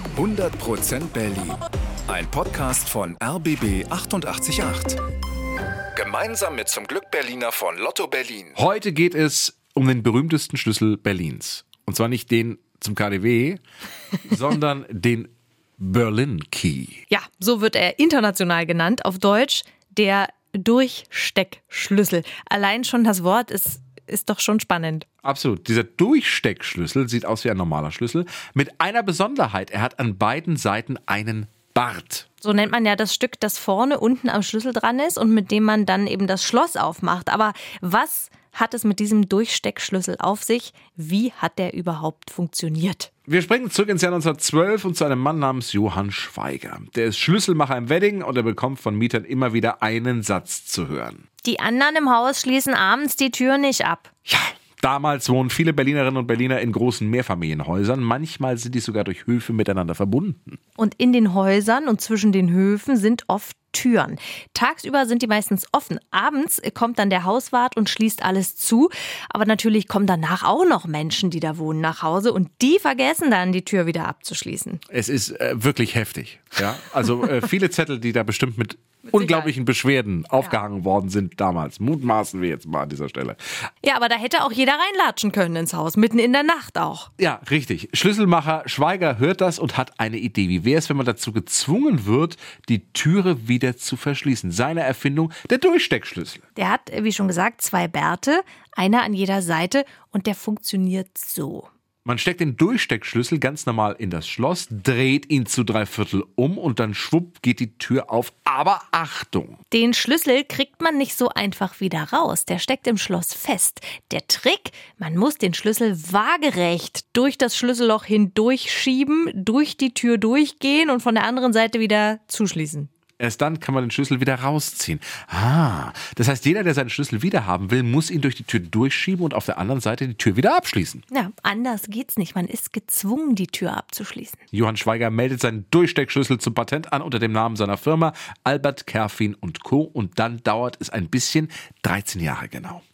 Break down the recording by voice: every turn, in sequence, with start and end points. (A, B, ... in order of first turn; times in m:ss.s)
0:00.1-0:05.0 A
0:05.9-0:08.6 A
0:08.6-0:13.6 B
0:14.2-0:17.0 B
0:17.1-0:25.0 C
0:25.2-0:32.3 B
0:32.4-0:43.1 C
0:43.3-0:51.2 B
0:51.4-0:54.1 C
0:54.3-1:00.6 B
1:00.8-1:14.8 C
1:14.9-1:23.4 B
1:19.0-1:19.5 C
1:23.8-1:27.1 C
1:27.2-1:36.4 B
1:36.6-1:41.7 C
1:42.0-1:49.6 B
1:49.7-2:02.9 C
2:03.2-2:11.0 B
2:11.1-2:14.4 C
2:14.5-2:22.8 B